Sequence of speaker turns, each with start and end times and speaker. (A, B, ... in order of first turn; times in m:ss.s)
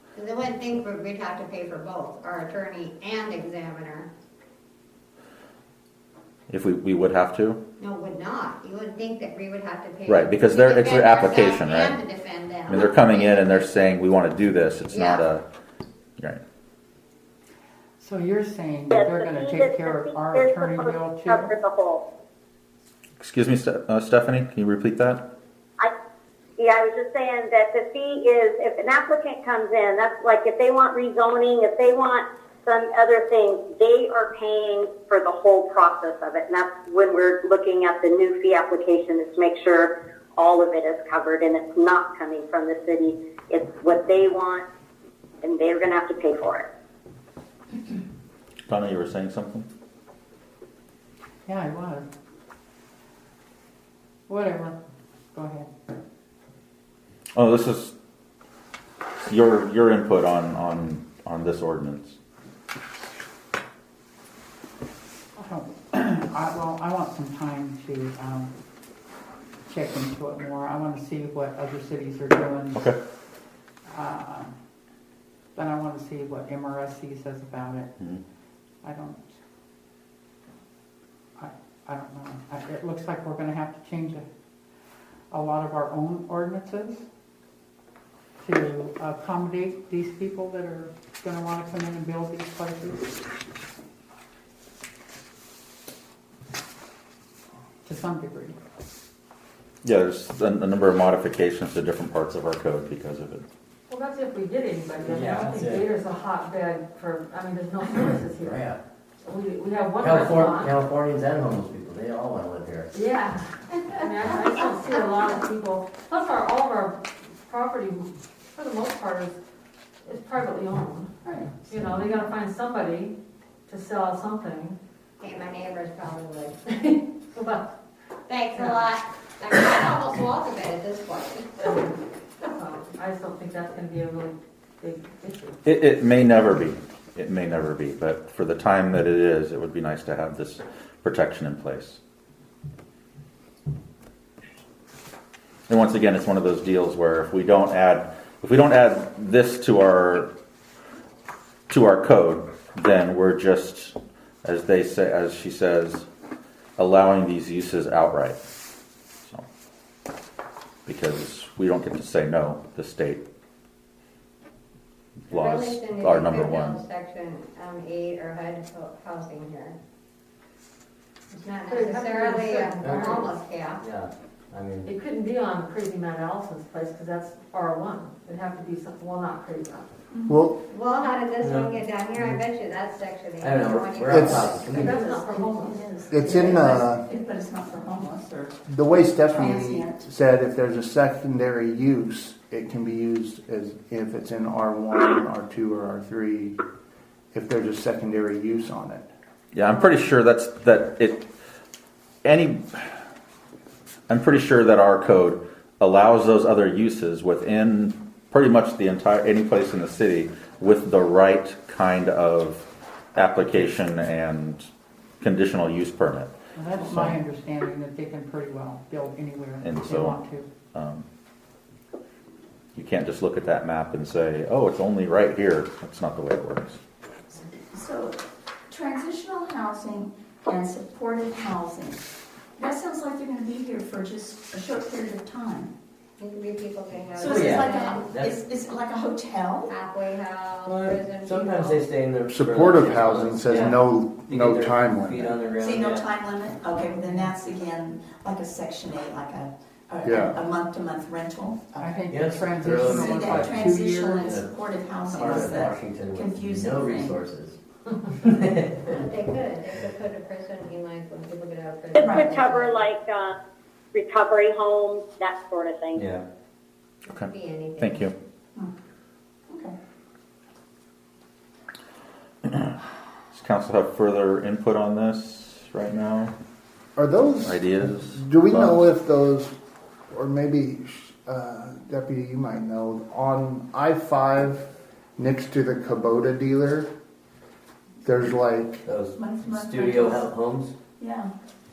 0:00.1-0:04.1 A
0:06.5-0:07.6 B
0:07.8-0:13.7 A
0:10.1-0:12.0 B
0:12.7-0:15.4 B
0:14.9-0:15.2 A
0:18.0-0:21.5 C
0:18.9-0:22.0 D
0:23.2-0:25.2 B
0:26.6-0:44.6 D
0:45.4-0:46.6 D
0:48.7-0:49.7 B
0:51.5-0:52.0 C
0:54.3-0:54.7 C
0:55.3-0:55.7 C
0:57.4-0:57.9 B
0:59.2-1:02.2 B
1:05.4-1:08.5 C
1:09.7-1:12.9 C
1:13.9-1:14.5 C
1:15.5-1:17.9 C
1:18.8-1:19.2 C
1:21.4-1:24.2 C
1:25.3-1:27.0 C
1:28.4-1:33.1 C
1:37.8-1:38.6 C
1:39.8-1:43.4 B
1:43.9-1:48.6 E
1:45.0-1:45.9 F
1:48.4-1:48.8 F
1:49.2-1:50.8 E
1:50.0-1:52.9 F
1:52.9-1:59.4 E
2:00.0-2:01.1 E
2:01.6-2:03.1 E
2:03.7-2:04.8 E
2:05.2-2:06.6 A
2:06.8-2:07.7 E
2:08.3-2:11.8 A
2:08.5-2:08.9 E
2:11.6-2:15.6 E
2:15.6-2:22.0 B
2:25.7-2:30.3 B
2:31.7-2:36.1 B
2:36.8-2:38.4 B
2:40.8-2:43.2 B
2:45.3-2:46.8 B
2:45.3-2:49.8 A
2:51.3-2:53.9 A
2:51.7-2:53.3 E
2:52.8-2:54.9 F
2:54.8-2:59.9 E
3:00.1-3:00.4 G
3:00.3-3:00.6 H
3:00.7-3:05.2 A
3:01.4-3:02.4 F
3:03.4-3:05.0 F
3:04.1-3:04.5 H
3:04.6-3:05.9 E
3:05.0-3:08.6 G
3:06.1-3:07.0 H
3:08.6-3:16.6 H
3:09.3-3:10.0 G
3:17.3-3:19.1 H
3:19.5-3:21.2 B
3:22.2-3:22.9 B
3:24.1-3:34.7 B
3:35.2-3:37.2 B
3:36.5-3:40.5 C
3:39.6-3:40.2 B
3:40.7-3:41.0 B
3:42.7-3:46.8 B
3:47.7-3:52.0 G
3:52.6-3:55.7 G
3:56.2-3:58.1 A
3:57.2-3:59.7 G
3:57.2-3:58.4 F
3:59.7-4:01.9 A
4:00.6-4:06.1 F
4:02.3-4:05.4 H
4:05.6-4:12.0 G
4:10.0-4:10.4 H
4:11.8-4:14.3 C
4:12.0-4:14.5 F
4:12.6-4:13.0 H
4:13.1-4:17.2 G
4:15.1-4:15.5 C
4:15.1-4:17.6 F
4:18.1-4:19.0 F
4:18.9-4:22.9 A
4:22.0-4:23.3 D
4:22.0-4:22.3 G
4:23.9-4:26.0 D
4:25.9-4:26.2 F
4:27.1-4:28.1 B
4:27.2-4:28.1 A
4:29.5-4:29.7 G
4:33.3-4:36.3 B
4:37.0-4:39.5 H
4:37.4-4:38.8 B
4:40.1-4:46.9 H
4:48.0-4:48.8 H
4:48.8-4:50.8 F
4:49.1-4:50.3 G
4:51.0-4:51.3 G